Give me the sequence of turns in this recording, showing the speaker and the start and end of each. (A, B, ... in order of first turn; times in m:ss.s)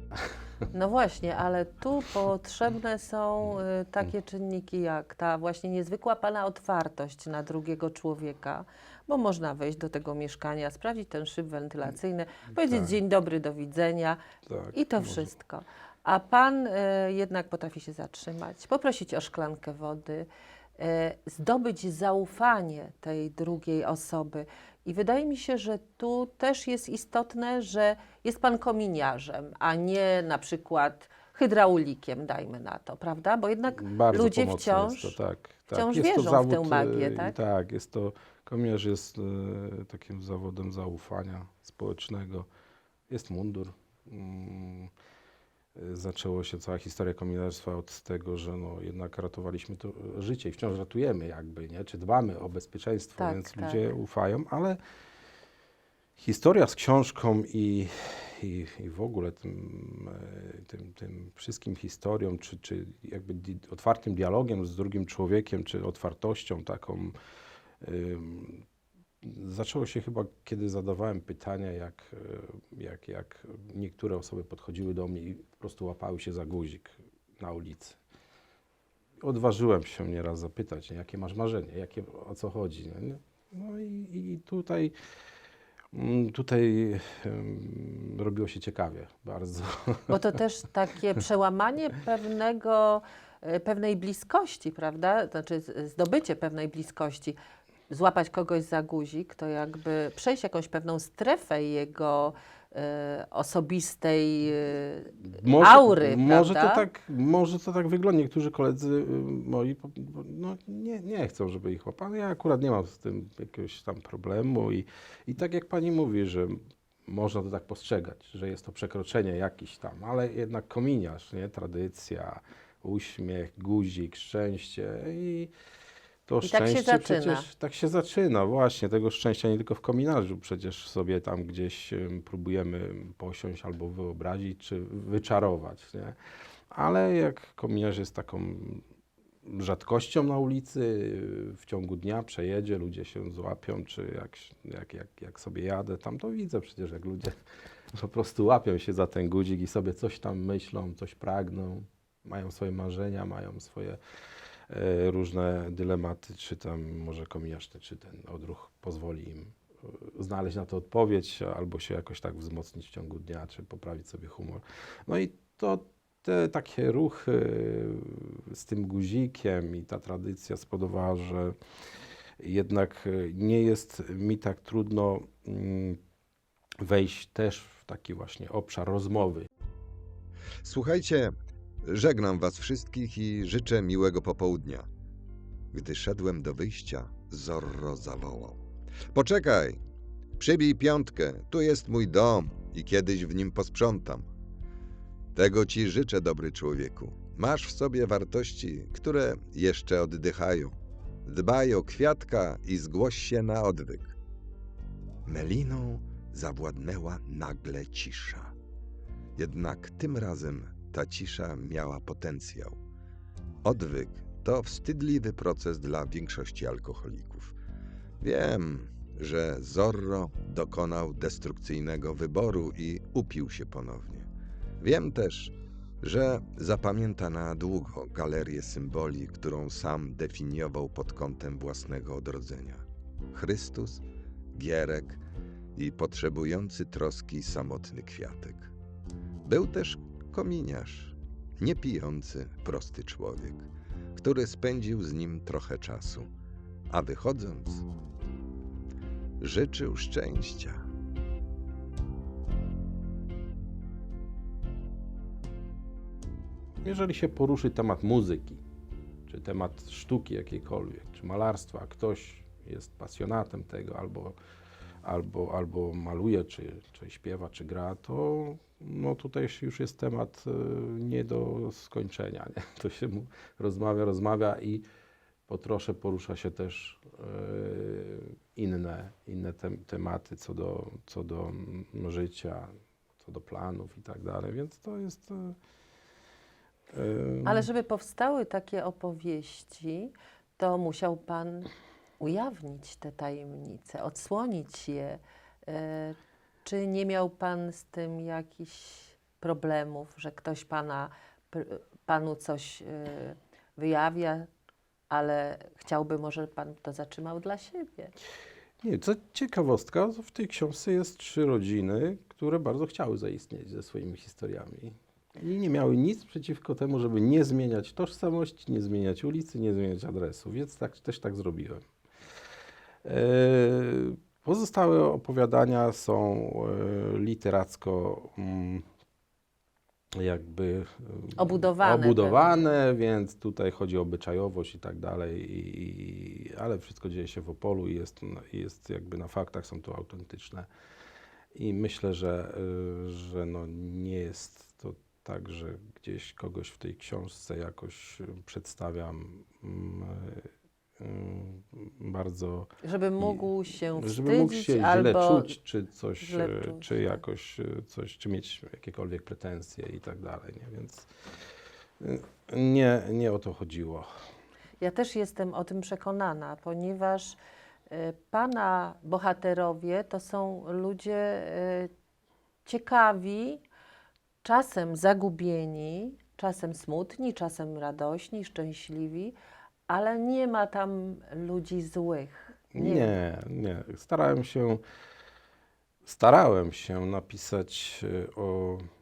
0:00.7-0:14.2 A
0:12.6-0:12.9 B
0:14.4-0:15.3 B
0:14.7-0:35.2 A
0:33.7-0:42.5 B
0:35.7-0:37.4 A
0:43.1-0:44.9 B
0:45.8-0:54.8 B
0:53.2-0:53.9 A
0:56.2-1:07.1 B
1:07.8-1:08.6 B
1:09.2-1:18.0 B
1:19.2-1:24.9 B
1:25.9-1:30.2 B
1:30.1-1:37.4 A
1:37.9-1:46.9 A
1:45.2-2:05.5 B
2:06.3-2:16.2 B
2:06.4-2:07.5 A
2:16.7-2:18.8 B
2:19.4-2:27.3 B
2:27.9-2:34.0 B
2:34.7-2:51.5 B
2:52.4-2:56.0 B
2:56.8-2:59.5 B
3:00.6-3:01.3 C
3:01.8-3:04.9 C
3:05.7-3:08.6 C
3:09.1-3:09.8 C
3:10.4-3:14.3 C
3:15.3-3:20.7 C
3:21.2-3:24.1 C
3:25.2-3:28.5 C
3:29.4-3:32.8 C
3:33.6-3:37.5 C
3:38.2-3:44.3 C
3:44.8-3:55.2 C
3:55.8-3:58.7 C
3:59.4-4:06.3 C
4:06.9-4:07.8 C
4:09.4-4:10.8 C
4:16.8-4:18.6 B
4:19.3-4:24.4 B
4:25.0-4:34.8 B
4:35.5-4:45.6 B
4:46.9-4:47.7 B
4:47.4-5:04.5 A
5:05.1-5:08.1 A
5:08.8-5:21.8 B
5:23.0-5:28.8 B
5:30.2-5:40.7 B
5:31.4-5:32.6 A
5:41.5-5:50.5 B
5:51.0-6:01.1 B
5:52.8-5:55.5 A
5:56.2-5:57.2 A
6:02.0-6:04.1 B
6:04.8-6:11.9 A
6:12.6-6:13.6 A
6:14.4-6:19.3 A
6:19.9-6:23.1 A
6:22.7-6:24.8 B
6:26.0-6:28.8 B